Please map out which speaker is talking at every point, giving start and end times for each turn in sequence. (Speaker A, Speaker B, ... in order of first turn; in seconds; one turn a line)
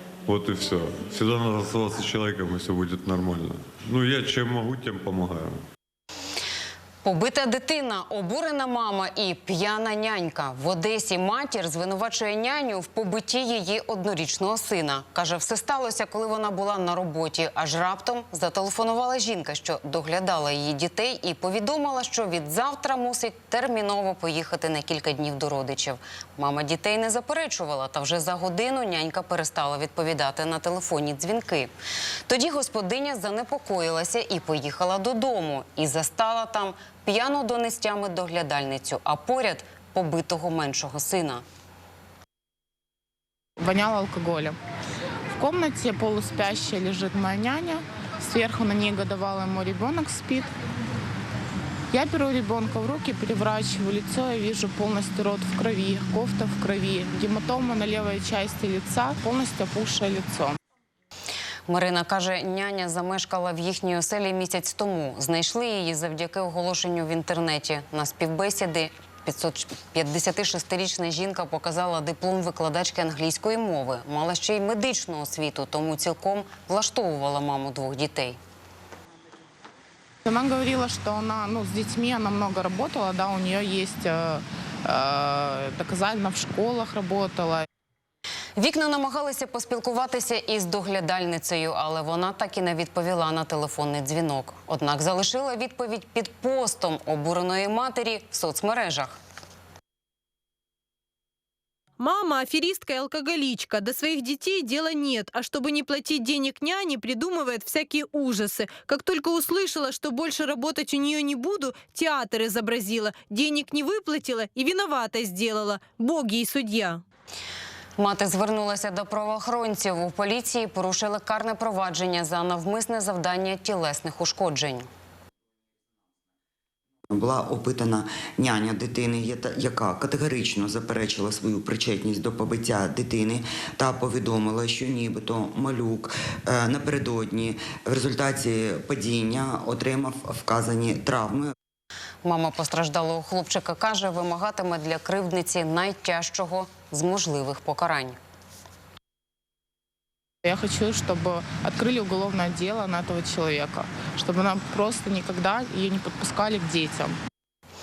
Speaker A: 0.3-5.6
Speaker B: 7.0-31.7
Speaker B: 32.3-41.4
Speaker C: 43.6-44.5
Speaker C: 45.3-50.5
Speaker C: 51.9-60.5
Speaker B: 61.7-78.4
Speaker C: 80.2-87.7
Speaker B: 88.6-99.2
Speaker D: 102.0-117.0
Speaker B: 118.0-124.9
Speaker E: 127.1-141.5
Speaker B: 142.2-148.2
Speaker C: 150.4-157.2